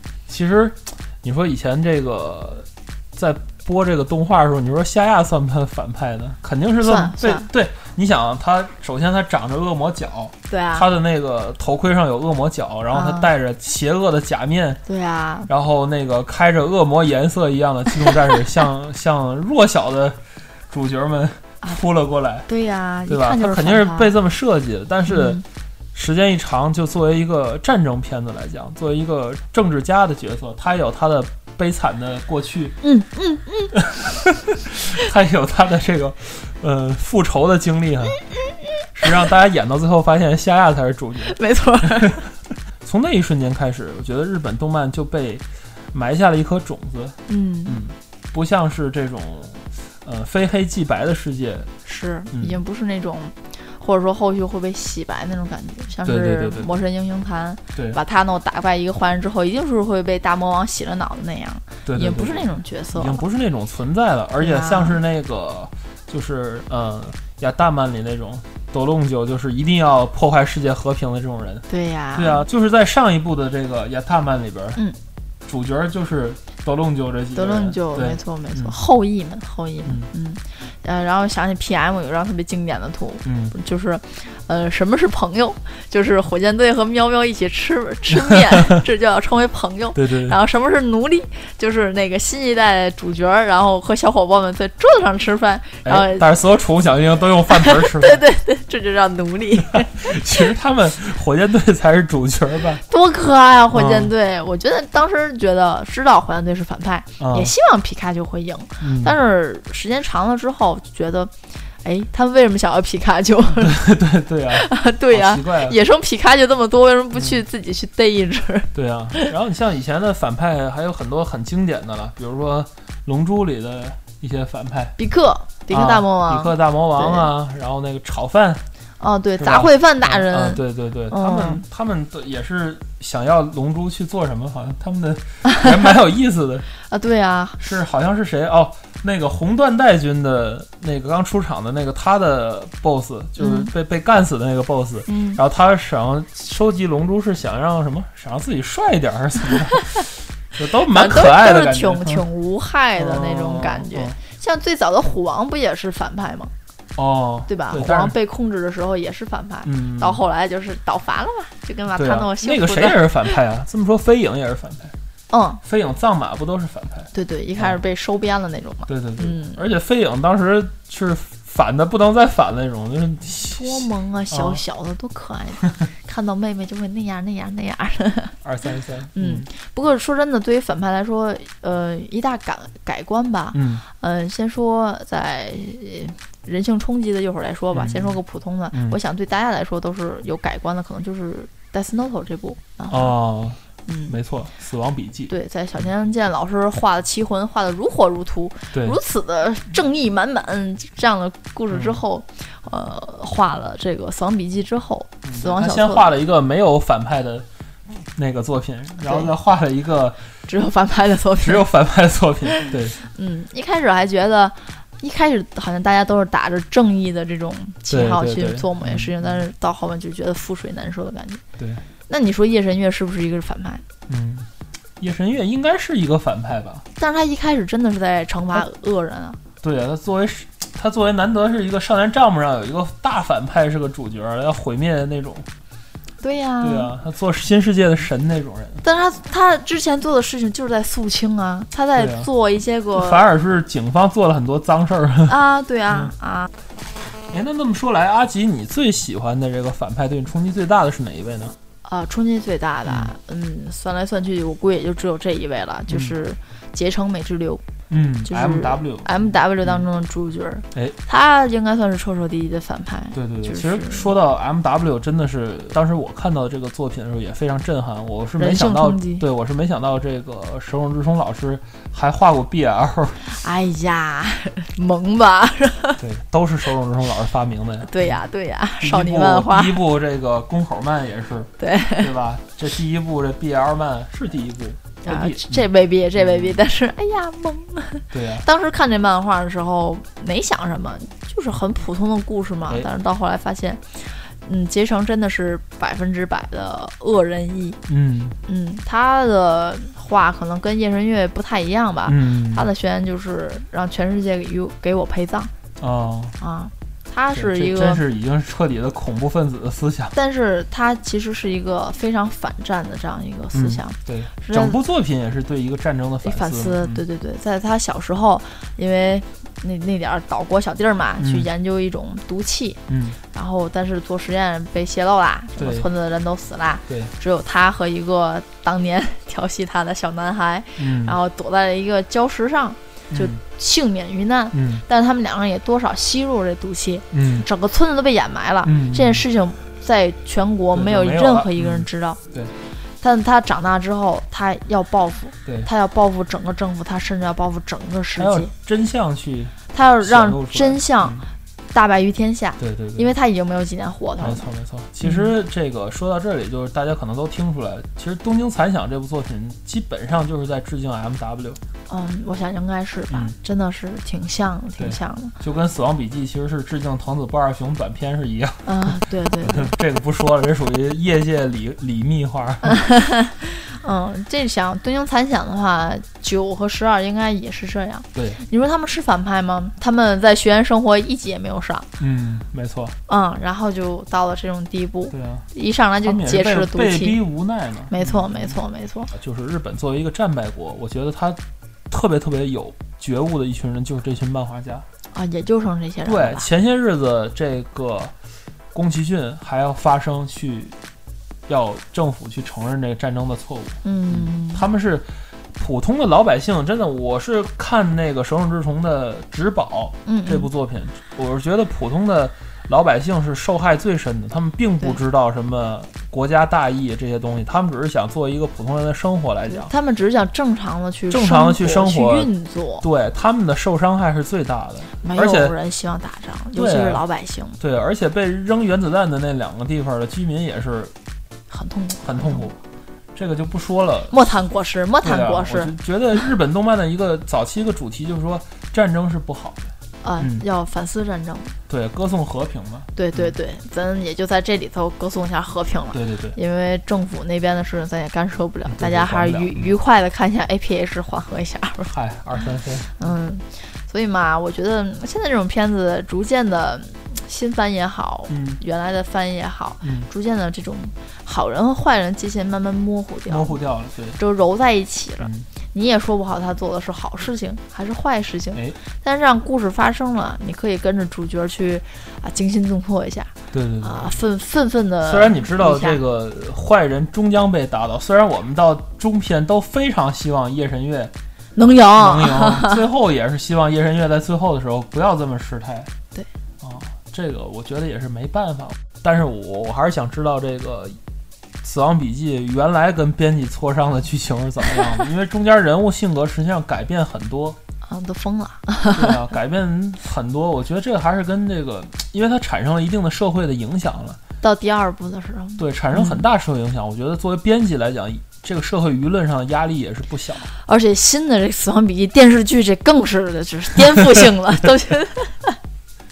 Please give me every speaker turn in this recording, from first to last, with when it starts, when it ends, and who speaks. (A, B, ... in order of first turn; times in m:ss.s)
0:00.3-0:14.8 A
0:06.8-0:07.5 B
0:10.5-0:10.9 B
0:12.9-0:13.3 B
0:14.9-0:15.5 B
0:15.5-0:22.5 A
0:22.5-0:24.1 B
0:23.1-0:25.4 A
0:25.1-0:25.4 B
0:25.9-0:32.8 A
0:32.8-0:33.8 B
0:34.7-0:38.2 A
0:39.0-0:41.4 A
0:41.2-0:42.2 B
0:42.8-0:51.7 A
0:47.3-0:47.8 B
0:51.8-1:03.2 B
0:52.3-0:52.6 A
0:56.0-0:56.7 A
0:57.8-0:58.0 A
1:01.9-1:14.8 A
1:04.4-1:05.0 B
1:11.7-1:12.5 B
1:15.4-1:18.8 A
1:17.3-1:36.3 B
1:19.8-1:20.1 A
1:23.2-1:23.6 A
1:28.1-1:28.8 A
1:30.0-1:30.4 A
1:35.8-1:38.2 A
1:37.5-1:40.2 B
1:39.6-1:42.8 A
1:42.8-1:53.8 B
1:43.7-1:44.1 A
1:47.2-1:47.5 A
1:48.8-1:49.2 A
1:53.6-1:55.8 A
1:54.5-1:59.3 B
1:57.1-1:57.4 A
1:58.7-2:05.0 A
2:05.0-2:07.3 B
2:05.7-2:08.6 A
2:09.0-2:11.6 B
2:09.4-2:16.7 A
2:16.8-2:17.6 B
2:17.6-2:32.3 A
2:23.4-2:23.7 B
2:25.1-2:25.4 B
2:30.9-2:36.5 B
2:33.0-2:34.2 A
2:37.0-2:38.2 A
2:37.5-2:43.4 B
2:39.6-2:40.2 A
2:41.9-2:44.9 A
2:45.3-2:45.6 B
2:45.6-2:47.8 A
2:47.1-2:49.6 B
2:48.9-2:54.6 A
2:53.5-2:58.4 B
2:58.4-2:59.5 A
2:59.2-3:13.2 B
3:03.5-3:03.8 A
3:07.7-3:08.2 A
3:08.7-3:09.0 A
3:12.9-3:15.3 A
3:13.9-3:14.2 B
3:15.3-3:26.1 B
3:18.7-3:19.0 A
3:21.7-3:22.0 A
3:25.2-3:30.2 A
3:29.0-3:29.3 B
3:30.5-3:31.7 B
3:31.4-3:33.0 A
3:32.6-3:41.4 B
3:37.9-3:39.4 A
3:41.6-3:41.8 A
3:42.1-3:43.8 B
3:44.1-3:46.8 A
3:47.0-3:49.4 B
3:49.6-3:55.5 A
3:56.2-3:56.9 B
3:56.6-3:58.8 A
3:58.8-4:03.2 B
4:02.0-4:02.3 A
4:03.0-4:05.4 A
4:05.3-4:06.5 B
4:07.3-4:11.6 A
4:11.8-4:17.6 B
4:12.9-4:13.1 A
4:15.9-4:16.2 A
4:17.9-4:19.9 A
4:18.2-4:24.1 B
4:23.1-4:33.4 A
4:28.4-4:29.2 B
4:33.2-4:36.0 B
4:36.0-4:38.2 A
4:37.8-4:39.8 B
4:38.8-4:46.7 A
4:41.6-4:42.1 B
4:45.0-4:57.8 B
4:48.1-4:48.4 A
4:57.9-4:58.4 A
4:58.4-5:05.5 B
5:02.1-5:02.7 A
5:05.8-5:06.4 A
5:06.4-5:08.0 B
5:07.3-5:10.2 A
5:10.2-5:14.8 B
5:13.5-5:17.0 A
5:16.2-5:42.2 B
5:21.2-5:21.5 A
5:22.9-5:23.2 A
5:25.6-5:25.9 A
5:26.9-5:27.1 A
5:30.8-5:31.2 A
5:33.1-5:33.4 A
5:34.5-5:34.8 A
5:37.1-5:37.5 A
5:38.6-5:39.2 A
5:40.7-5:42.6 A
5:43.0-5:48.5 B
5:48.2-5:51.3 A
5:49.7-5:51.2 B
5:51.7-5:54.5 B
5:52.6-5:53.1 A
5:54.2-6:01.6 A
5:55.0-5:55.3 B
6:01.9-6:05.4 B
6:03.1-6:03.4 A
6:04.8-6:12.8 A
6:08.6-6:09.7 B
6:12.6-6:21.9 B
6:18.2-6:18.4 A
6:22.0-6:23.0 A
6:23.1-6:27.2 B
6:25.1-6:25.5 A
6:26.0-6:28.6 A
6:27.9-6:29.1 B
6:29.1-6:34.8 A
6:35.1-6:36.5 B
6:36.0-6:38.1 A
6:38.7-6:40.8 A
6:41.5-6:59.7 A
6:43.8-6:44.6 B
6:50.0-6:50.5 B
6:59.4-7:02.9 B
7:01.1-7:05.6 A
7:05.0-7:07.6 B
7:06.6-7:07.0 A
7:07.6-7:10.9 A
7:11.5-7:12.5 B
7:12.0-7:12.6 A
7:13.1-7:14.2 A
7:14.1-7:15.7 B
7:15.0-7:20.4 A
7:20.0-7:21.6 B
7:21.7-7:23.3 A
7:23.0-7:31.9 B
7:25.9-7:26.4 A
7:28.6-7:29.7 A
7:31.9-7:33.1 A
7:33.0-7:43.6 B
7:38.3-7:38.6 A
7:39.8-7:40.1 A
7:43.3-7:44.2 A
7:44.2-7:56.0 B
7:45.2-7:45.5 A
7:53.5-7:54.2 A
7:55.0-8:01.1 A
8:01.6-8:02.8 B
8:02.0-8:05.9 A
8:06.6-8:11.0 A
8:11.6-8:17.6 A
8:17.8-8:19.2 B
8:18.9-8:24.2 A
8:24.4-8:26.3 B
8:25.6-8:30.5 A
8:30.5-8:35.6 B